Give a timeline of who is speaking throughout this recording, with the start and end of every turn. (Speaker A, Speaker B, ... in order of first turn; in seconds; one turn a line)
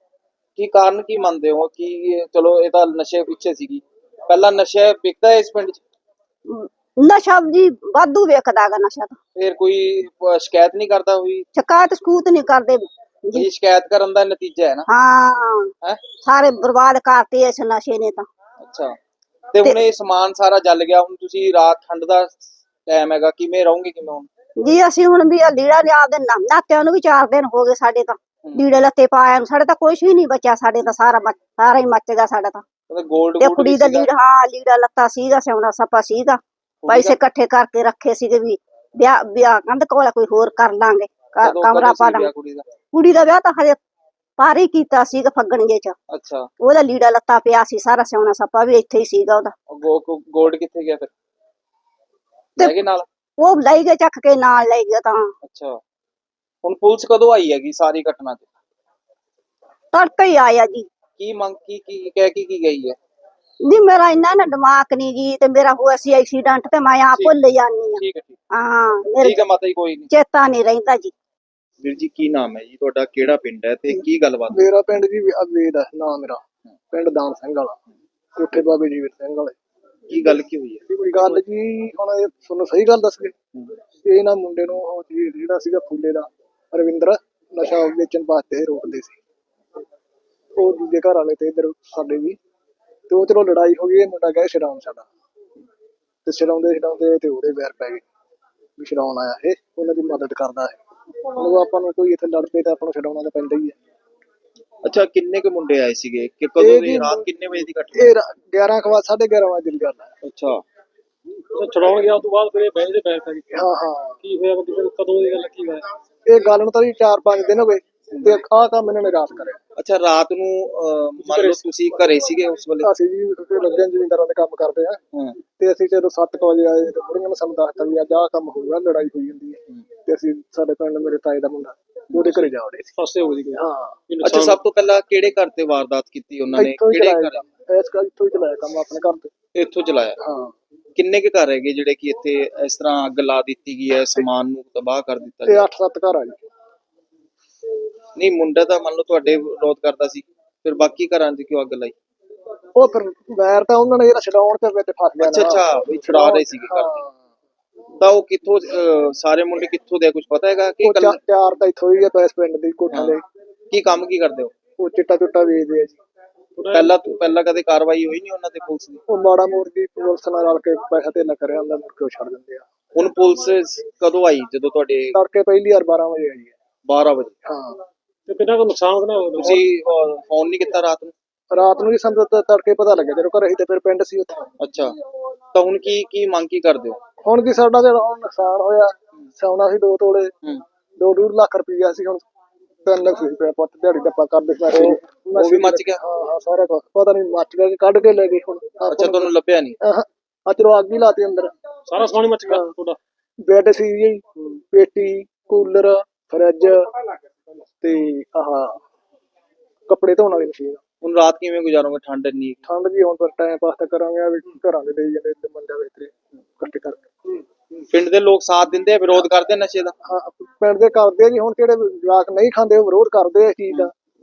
Speaker A: 0.6-5.8
Speaker B: 6.5-9.2
Speaker A: 9.3-11.4
Speaker B: 11.6-13.4
Speaker A: 13.3-14.9
Speaker B: 14.9-15.7
Speaker B: 16.2-18.3
Speaker A: 18.6-18.9
Speaker A: 19.5-24.3
Speaker B: 24.6-32.6
Speaker A: 32.9-34.1
Speaker B: 33.4-42.3
Speaker A: 36.8-37.1
Speaker A: 41.4-42.6
Speaker B: 42.9-43.8
Speaker B: 44.4-45.9
Speaker A: 46.1-46.5
Speaker B: 46.6-49.5
Speaker A: 49.7-51.1
Speaker A: 52.6-53.0
Speaker B: 53.4-55.3
Speaker A: 55.4-55.8
Speaker A: 56.6-58.5
Speaker B: 59.9-60.9
Speaker A: 61.2-63.0
Speaker B: 63.7-68.0
Speaker A: 68.0-68.4
Speaker B: 68.5-69.4
Speaker A: 69.2-70.1
Speaker B: 70.1-71.1
Speaker A: 71.8-74.6
Speaker C: 74.5-76.4
Speaker C: 76.9-77.8
Speaker C: 78.3-79.5
Speaker A: 80.1-80.8
Speaker C: 80.9-83.3
Speaker C: 84.0-89.2
Speaker C: 90.5-92.4
Speaker C: 93.1-95.1
Speaker C: 96.2-98.0
Speaker C: 98.8-100.8
Speaker C: 101.3-103.7
Speaker A: 104.8-108.1
Speaker C: 106.6-107.2
Speaker C: 107.9-110.1
Speaker A: 110.2-110.6
Speaker D: 111.5-113.5
Speaker C: 113.5-114.2
Speaker D: 114.2-115.9
Speaker C: 116.3-119.6
Speaker A: 119.8-122.9
Speaker D: 121.2-121.7
Speaker C: 122.8-125.0
Speaker C: 125.6-132.9
Speaker D: 133.0-134.6
Speaker C: 133.5-134.0
Speaker A: 134.2-137.4
Speaker C: 136.5-139.3
Speaker A: 139.5-140.2
Speaker C: 140.2-140.5
Speaker A: 140.9-145.6
Speaker C: 145.4-146.4
Speaker A: 148.2-151.9
Speaker C: 152.8-157.2
Speaker A: 155.2-157.0
Speaker A: 158.0-161.2
Speaker C: 160.8-163.2
Speaker A: 163.7-164.5
Speaker C: 164.8-166.0
Speaker D: 166.6-167.0
Speaker A: 166.7-169.0
Speaker C: 169.1-172.6
Speaker A: 172.9-175.2
Speaker C: 175.1-176.5
Speaker A: 176.8-177.3
Speaker C: 177.4-177.8
Speaker D: 178.3-179.7
Speaker A: 179.4-181.1
Speaker C: 181.5-184.4
Speaker A: 184.6-185.0
Speaker A: 185.5-187.0
Speaker C: 187.2-190.3
Speaker C: 191.0-192.2
Speaker C: 192.8-201.5
Speaker A: 194.7-196.0
Speaker A: 198.9-199.8
Speaker D: 201.9-203.0
Speaker C: 203.4-206.9
Speaker C: 207.8-208.8
Speaker C: 209.9-210.8
Speaker A: 211.0-212.6
Speaker C: 212.7-217.0
Speaker A: 217.9-219.9
Speaker C: 220.0-223.9